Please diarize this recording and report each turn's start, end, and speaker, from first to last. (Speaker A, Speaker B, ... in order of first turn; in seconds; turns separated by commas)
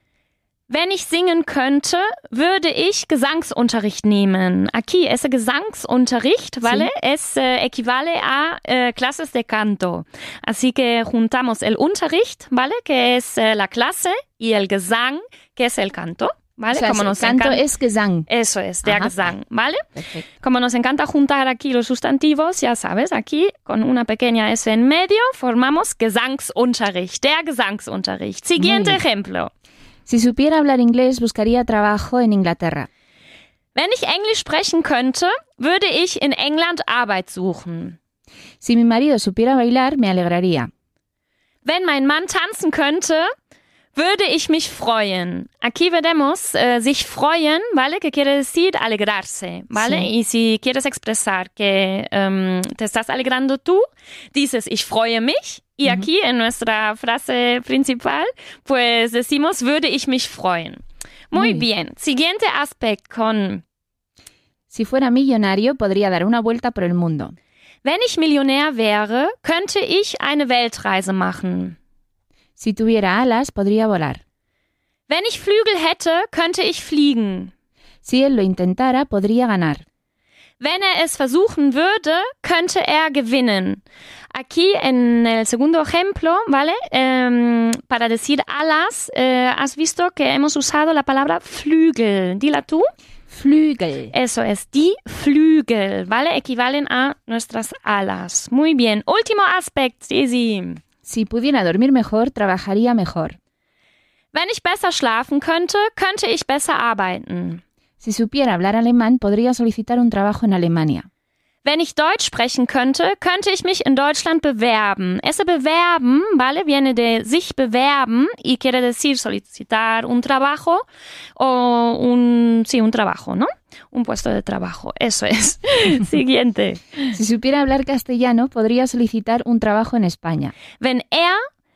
Speaker A: 0.7-17.6, Speaker B: 6.6-6.9, Speaker B: 16.7-18.3, Speaker A: 18.3-19.8, Speaker B: 18.8-19.3, Speaker B: 19.9-20.2, Speaker A: 20.4-29.5, Speaker B: 28.6-29.0, Speaker B: 30.1-32.9, Speaker A: 33.7-38.0, Speaker B: 38.6-40.7, Speaker A: 41.6-43.3, Speaker A: 43.9-63.6, Speaker B: 49.7-50.1, Speaker B: 61.3-61.6, Speaker B: 64.7-67.3, Speaker A: 67.8-71.8, Speaker B: 72.6-74.2, Speaker A: 75.1-77.5, Speaker B: 78.0-79.8, Speaker A: 80.6-83.8, Speaker A: 84.3-92.8, Speaker B: 93.3-94.1, Speaker A: 94.1-100.8, Speaker B: 101.0-103.3, Speaker A: 104.3-107.6, Speaker B: 108.0-111.1, Speaker A: 111.6-120.8, Speaker A: 121.4-127.1, Speaker B: 127.1-130.5, Speaker A: 130.8-131.4